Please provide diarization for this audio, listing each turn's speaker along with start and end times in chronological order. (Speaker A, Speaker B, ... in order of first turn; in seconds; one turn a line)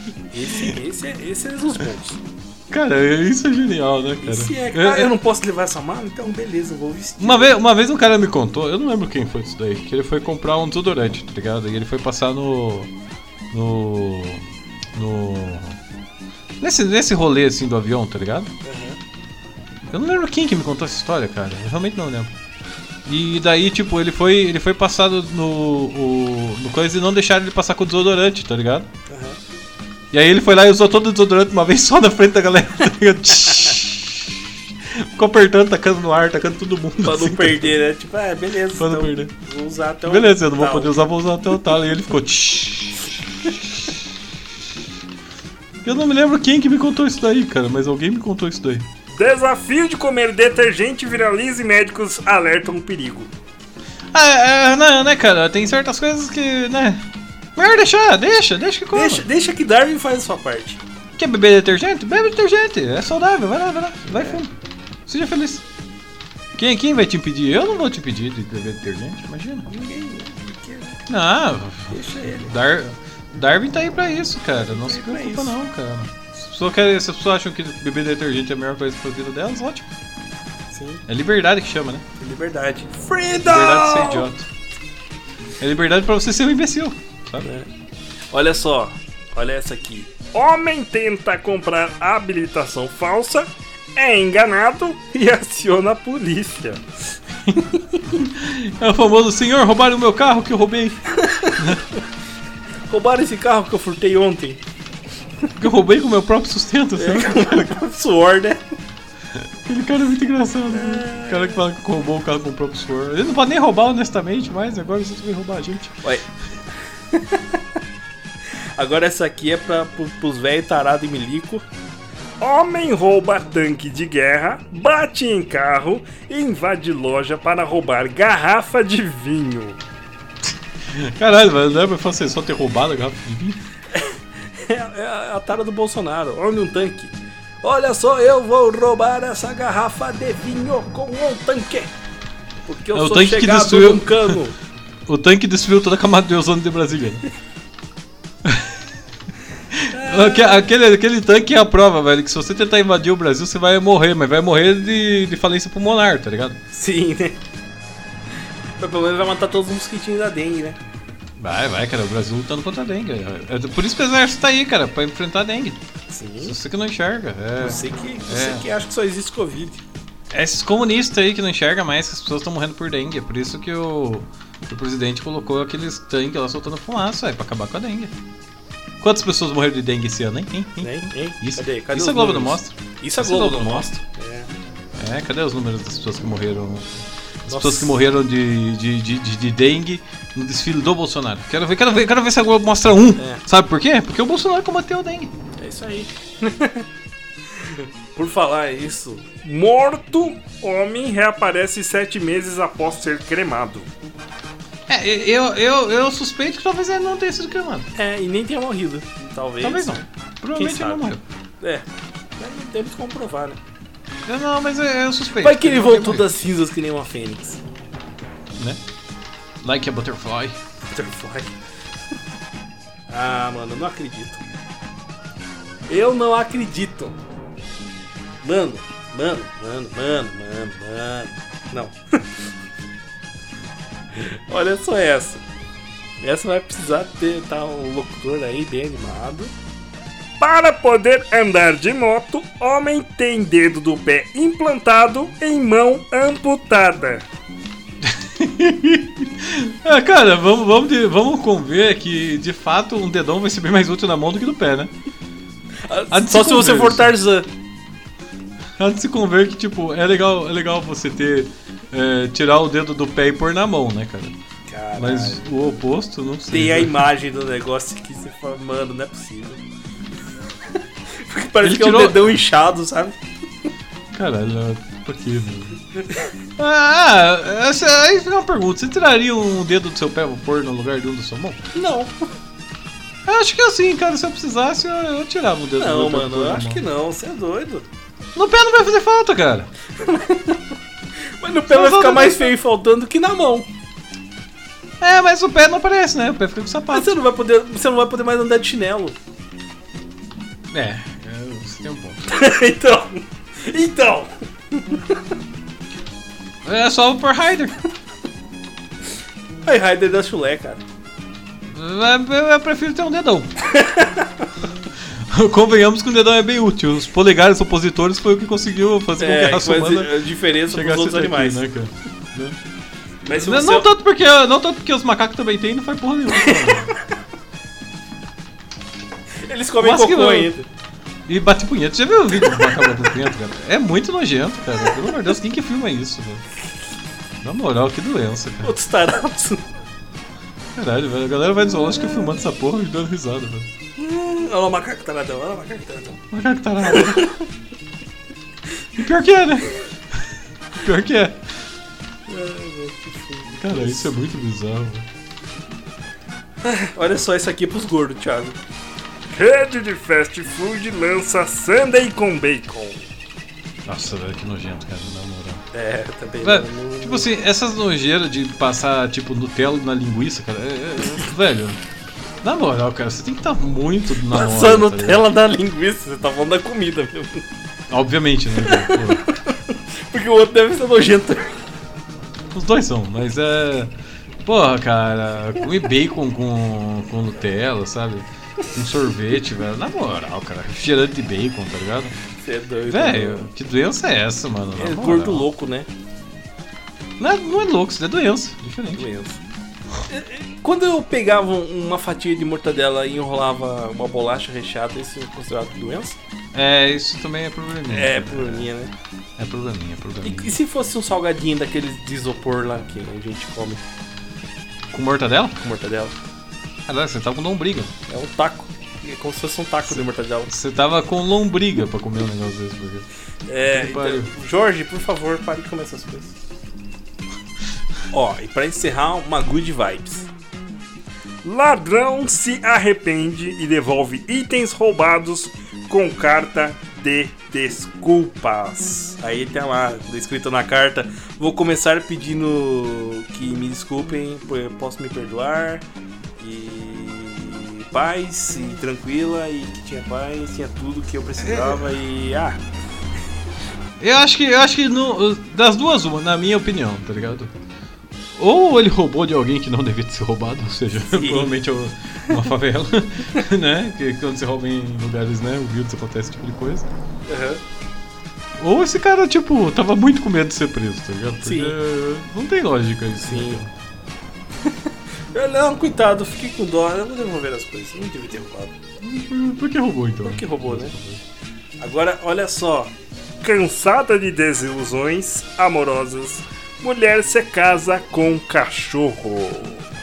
Speaker A: 0.3-2.2
Speaker B: 2.7-5.1
Speaker A: 4.2-7.5
Speaker B: 7.2-12.9
Speaker B: 13.5-15.8
Speaker B: 16.6-18.5
Speaker A: 18.6-19.0
Speaker B: 19.9-22.3
Speaker B: 23.1-28.9
Speaker A: 29.1-29.4
Speaker B: 30.1-37.8
Speaker A: 37.0-41.0
Speaker B: 38.8-39.3
Speaker B: 40.0-44.0
Speaker B: 45.8-48.9
Speaker C: 49.1-53.3
Speaker B: 54.1-59.2
Speaker A: 58.9-60.8
Speaker B: 61.2-64.5
Speaker A: 64.1-64.4
Speaker B: 65.1-65.6
Speaker B: 66.5-69.7
Speaker A: 69.7-71.0
Speaker B: 71.1-79.9
Speaker A: 71.9-72.5
Speaker A: 74.7-75.5
Speaker A: 80.7-81.0
Speaker B: 81.1-82.0
Speaker A: 82.2-84.3
Speaker B: 83.4-84.5
Speaker B: 85.6-87.5
Speaker A: 87.4-87.7
Speaker A: 88.3-90.2
Speaker C: 90.3-96.8
Speaker A: 95.6-96.0
Speaker B: 97.5-101.0
Speaker A: 101.2-101.8
Speaker B: 101.5-101.8
Speaker A: 102.9-104.6
Speaker B: 105.6-107.8
Speaker A: 107.0-108.6
Speaker B: 109.3-116.0
Speaker A: 110.7-111.6
Speaker A: 117.1-117.6
Speaker A: 118.8-121.6
Speaker C: 122.4-129.8
Speaker B: 130.9-133.6
Speaker A: 133.9-141.9
Speaker A: 142.7-144.5
Speaker B: 142.9-144.4
Speaker B: 145.1-147.2
Speaker B: 148.4-148.7
Speaker B: 149.7-156.6
Speaker A: 149.9-150.7
Speaker A: 156.7-157.4
Speaker A: 158.8-160.8
Speaker B: 161.4-165.8
Speaker A: 166.1-166.6
Speaker B: 166.4-168.6
Speaker A: 167.6-169.8
Speaker B: 170.3-178.1
Speaker B: 179.0-183.9
Speaker A: 180.8-184.5
Speaker B: 184.9-186.9
Speaker B: 187.4-195.3
Speaker A: 187.5-188.0
Speaker A: 193.2-193.4
Speaker A: 195.6-196.8
Speaker A: 197.6-199.4
Speaker C: 199.4-203.9
Speaker B: 204.9-207.9
Speaker A: 207.9-210.0
Speaker B: 209.6-211.2
Speaker A: 210.5-211.1
Speaker A: 211.6-211.8
Speaker A: 212.4-213.6
Speaker B: 214.2-216.3
Speaker A: 215.4-217.6
Speaker B: 219.6-220.6
Speaker A: 220.9-221.6
Speaker A: 223.1-224.4
Speaker A: 225.9-227.2
Speaker A: 228.4-232.2
Speaker A: 234.2-235.4
Speaker A: 236.2-239.5
Speaker C: 240.4-247.2
Speaker B: 248.0-254.9
Speaker A: 255.8-257.5
Speaker B: 256.1-257.1
Speaker B: 258.8-264.4
Speaker A: 264.7-265.6
Speaker B: 264.9-267.0
Speaker A: 266.5-269.6
Speaker A: 271.1-273.2
Speaker B: 271.6-272.3
Speaker B: 274.1-275.8
Speaker A: 276.0-276.3
Speaker B: 276.6-281.6
Speaker A: 281.7-282.3
Speaker B: 283.2-286.8
Speaker A: 285.8-287.8
Speaker B: 288.3-289.7
Speaker A: 290.0-290.6
Speaker A: 291.4-293.7
Speaker B: 291.7-292.5
Speaker B: 295.0-297.1
Speaker A: 296.9-299.1
Speaker B: 300.7-302.2
Speaker A: 302.3-305.2
Speaker B: 306.6-307.8
Speaker A: 309.6-310.8
Speaker B: 311.7-313.5
Speaker A: 313.6-314.5
Speaker B: 315.0-320.1
Speaker A: 319.2-321.6
Speaker B: 320.7-322.6
Speaker A: 323.2-323.9
Speaker B: 323.3-326.9
Speaker A: 326.3-327.0
Speaker A: 329.4-330.6
Speaker B: 329.8-330.5
Speaker B: 331.3-336.4
Speaker B: 337.4-338.7
Speaker A: 338.6-339.7
Speaker B: 340.7-343.7
Speaker A: 342.0-342.3
Speaker A: 343.9-346.2
Speaker B: 346.3-347.4
Speaker A: 346.8-347.3
Speaker B: 348.9-351.4
Speaker A: 352.3-354.1
Speaker B: 353.6-355.1
Speaker A: 356.6-358.6
Speaker C: 359.3-363.1
Speaker B: 363.9-365.6
Speaker A: 365.7-367.3
Speaker B: 366.4-371.8
Speaker B: 372.4-375.2
Speaker A: 374.3-377.4
Speaker B: 377.9-379.2
Speaker A: 378.5-381.6
Speaker B: 382.5-383.9
Speaker B: 384.4-392.1
Speaker A: 392.4-393.5
Speaker B: 392.9-395.5
Speaker A: 394.8-395.9
Speaker B: 397.2-399.1
Speaker A: 398.9-399.4
Speaker A: 400.1-406.2
Speaker B: 406.5-408.7
Speaker A: 407.9-408.9
Speaker B: 409.4-410.5
Speaker A: 410.2-413.8
Speaker B: 414.9-415.6
Speaker A: 415.6-416.1
Speaker B: 416.9-417.9
Speaker A: 418.1-420.5
Speaker B: 419.9-423.1
Speaker A: 423.5-426.3
Speaker B: 423.6-424.3
Speaker A: 428.1-430.3
Speaker C: 431.4-439.1
Speaker A: 439.0-445.8
Speaker A: 446.4-452.6
Speaker B: 451.4-451.9
Speaker B: 454.0-457.5
Speaker B: 458.4-466.9
Speaker A: 461.0-461.5
Speaker A: 467.3-467.6
Speaker B: 468.6-473.7
Speaker A: 471.4-471.8
Speaker A: 473.2-473.6
Speaker A: 475.3-478.7
Speaker B: 479.0-481.2
Speaker A: 480.2-480.9
Speaker A: 481.8-482.9
Speaker C: 483.4-489.8